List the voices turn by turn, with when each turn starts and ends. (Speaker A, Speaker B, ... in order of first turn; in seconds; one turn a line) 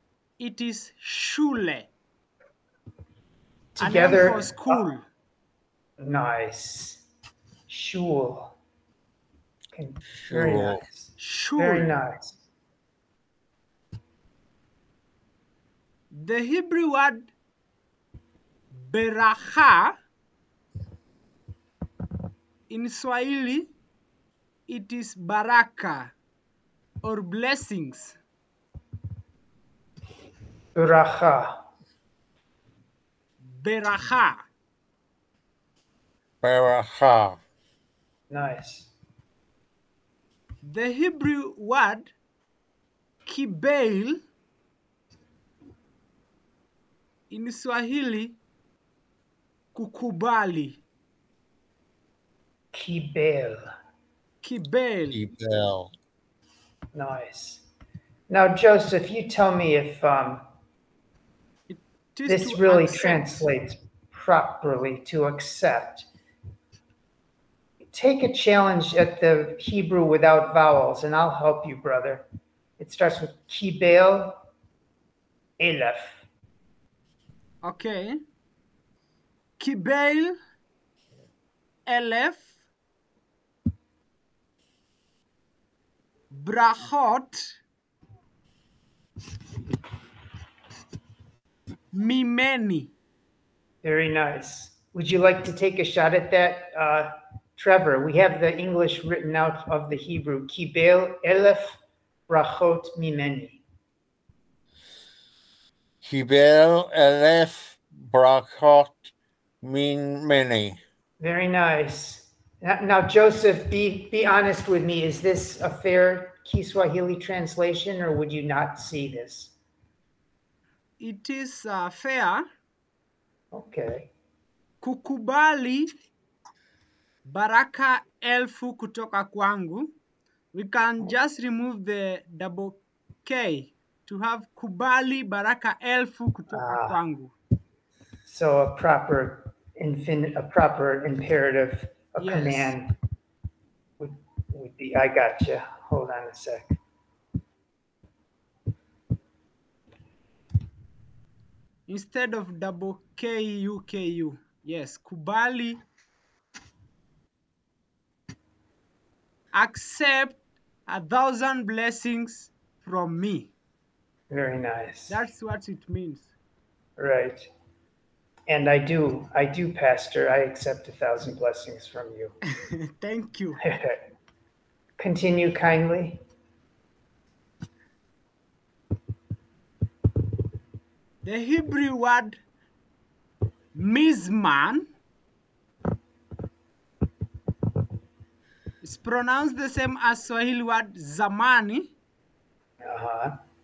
Speaker A: 0.4-1.9
Speaker B: 3.7-4.8
Speaker A: 3.8-5.0
Speaker B: 6.0-7.0
Speaker B: 7.7-8.6
Speaker B: 9.7-12.4
Speaker C: 10.2-10.8
Speaker A: 11.2-11.9
Speaker A: 16.1-17.3
Speaker A: 18.7-19.9
Speaker A: 22.7-23.7
Speaker A: 24.7-26.1
Speaker A: 27.0-28.2
Speaker B: 30.7-31.6
Speaker A: 33.4-34.4
Speaker C: 36.4-37.4
Speaker B: 38.3-38.9
Speaker A: 40.6-42.1
Speaker A: 43.2-44.2
Speaker A: 47.3-48.4
Speaker A: 49.7-50.8
Speaker B: 52.7-53.6
Speaker A: 54.4-55.2
Speaker C: 55.1-55.9
Speaker B: 56.9-57.6
Speaker B: 58.3-60.4
Speaker A: 61.7-63.5
Speaker B: 62.3-66.1
Speaker B: 67.9-72.2
Speaker B: 72.8-74.4
Speaker B: 75.6-76.2
Speaker A: 77.6-78.2
Speaker A: 79.6-80.3
Speaker A: 81.8-82.5
Speaker A: 86.3-87.6
Speaker A: 91.9-92.9
Speaker B: 93.8-103.6
Speaker C: 106.0-109.1
Speaker C: 109.6-110.8
Speaker B: 111.2-119.5
Speaker A: 121.0-122.4
Speaker B: 123.5-124.1
Speaker A: 124.8-125.9
Speaker A: 127.2-129.9
Speaker A: 130.5-137.3
Speaker B: 136.5-137.0
Speaker B: 138.2-142.9
Speaker A: 142.2-142.7
Speaker B: 144.0-146.8
Speaker A: 151.9-155.8
Speaker A: 159.5-163.5
Speaker B: 164.3-165.2
Speaker A: 165.1-166.3
Speaker B: 167.0-167.5
Speaker B: 168.5-172.4
Speaker A: 172.9-173.6
Speaker B: 173.6-174.0
Speaker B: 175.0-176.2
Speaker A: 181.2-182.3
Speaker A: 183.7-184.8
Speaker A: 188.8-191.9
Speaker B: 192.8-193.3